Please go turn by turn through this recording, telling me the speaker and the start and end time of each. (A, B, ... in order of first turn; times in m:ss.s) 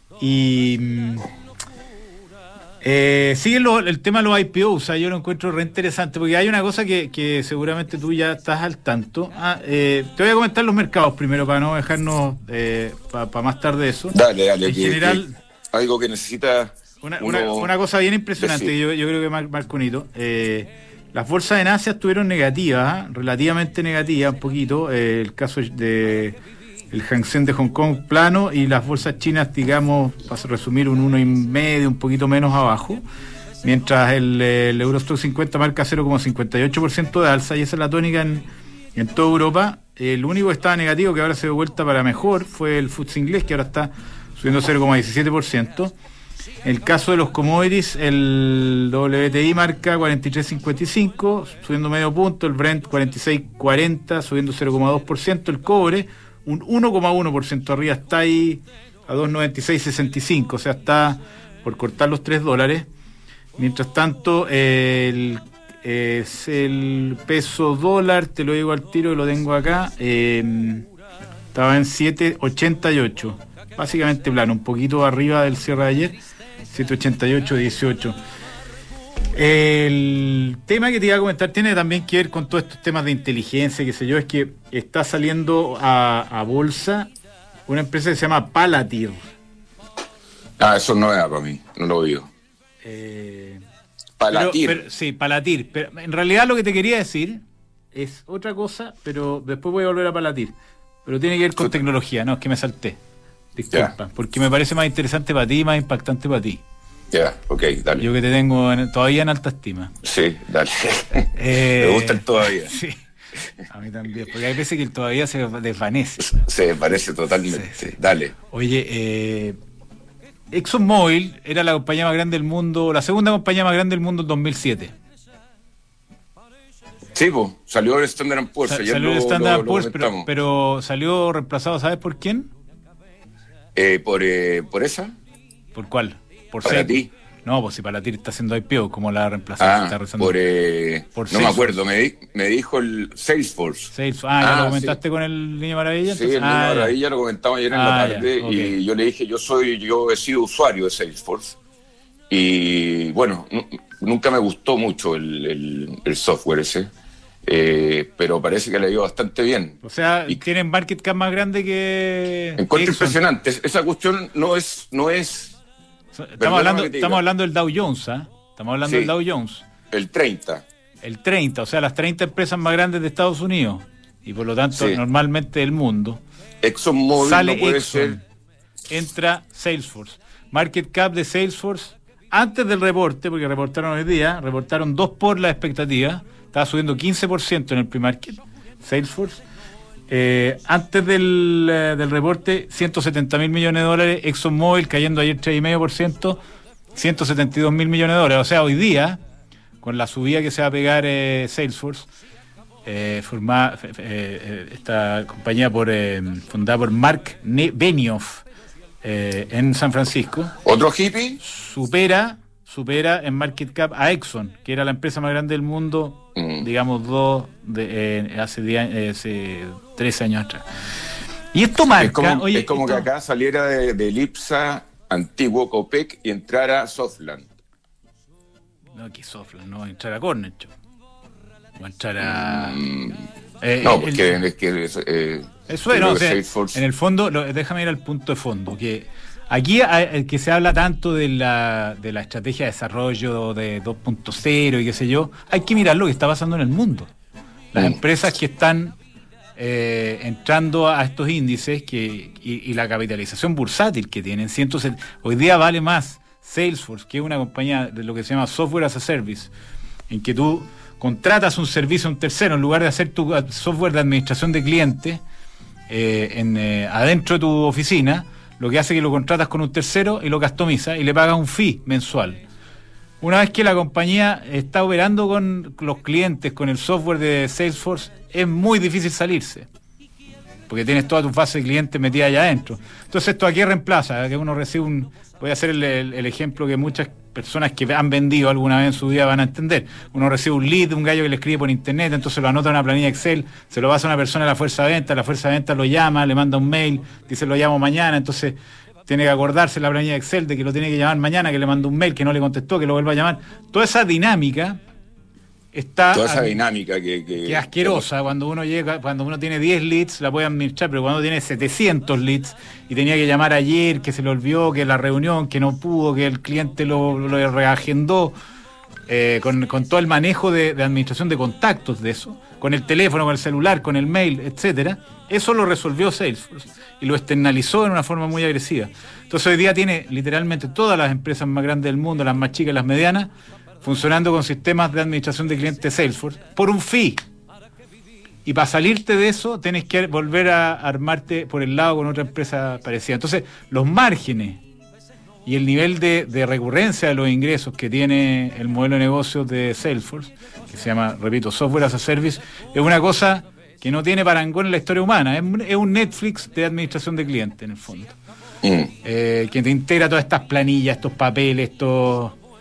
0:00.2-0:01.3 A
0:02.8-0:15.3 A
0:14.1-0:17.7 B
0:17.0-0:26.4 A
0:18.4-0:18.7 B
0:26.9-0:33.0 A
0:33.6-0:45.9 A
0:46.6-1:02.9 A
1:03.6-1:10.9 A
1:11.5-1:16.2 A
1:16.7-1:18.2 A
1:19.3-1:27.1 A
1:27.7-1:29.3 A
1:30.6-1:32.3 B
1:32.8-1:33.6 A
1:34.2-1:34.8 B
1:34.3-1:37.4 A
1:37.9-1:40.5 A
1:41.0-1:43.0 A
1:43.6-1:46.6 A
1:47.1-1:48.1 B
1:48.0-1:49.9 A
1:50.0-1:52.7 B
1:51.3-1:53.0 A
1:53.7-1:56.4 A
1:56.2-1:58.3 B
1:57.5-1:58.0 A
1:58.5-1:59.6 A
2:00.5-2:04.9 A
2:07.1-2:10.3 B
2:08.7-2:12.5 A
2:13.8-2:15.2 B
2:15.8-2:20.4 A
2:16.6-2:17.1 B
2:19.6-2:25.0 B
2:21.2-2:21.8 A
2:23.9-2:27.0 A
2:26.1-2:31.6 B
2:27.7-2:28.8 A
2:32.3-2:36.9 B
2:37.4-2:40.4 B
2:39.8-2:43.2 A
2:42.6-2:45.6 B
2:46.2-2:49.6 A
2:46.4-2:47.2 B
2:48.8-2:49.1 B
2:49.9-2:50.6 B
2:51.0-2:56.2 A
2:54.7-2:55.0 B
2:56.6-2:58.2 B
2:57.2-2:58.2 A
2:58.9-3:09.4 A
3:10.1-3:16.4 A
3:17.0-3:19.2 A
3:19.8-3:22.1 A
3:22.9-3:28.4 A
3:29.0-3:30.5 A
3:30.6-3:31.4 B
3:31.4-3:40.6 A
3:36.4-3:36.7 B
3:41.5-3:43.1 A
3:41.8-3:47.5 B
3:49.0-3:50.7 A
3:51.8-3:52.8 A
3:52.2-3:53.2 B
3:53.6-3:54.4 A
3:53.8-3:56.8 B
3:55.7-4:07.1 A
4:07.7-4:09.0 A
4:09.6-4:19.5 A
4:20.1-4:25.2 A
4:25.9-4:32.4 A
4:33.2-4:39.7 A
4:40.7-4:58.6 A
4:59.1-5:04.8 A
5:05.7-5:06.6 A
5:06.1-5:08.1 B
5:07.4-5:18.4 A
5:19.1-5:33.3 A
5:33.8-5:37.2 A
5:38.4-5:44.6 A
5:45.5-5:58.2 A
5:58.6-5:58.9 B
5:59.0-6:02.4 A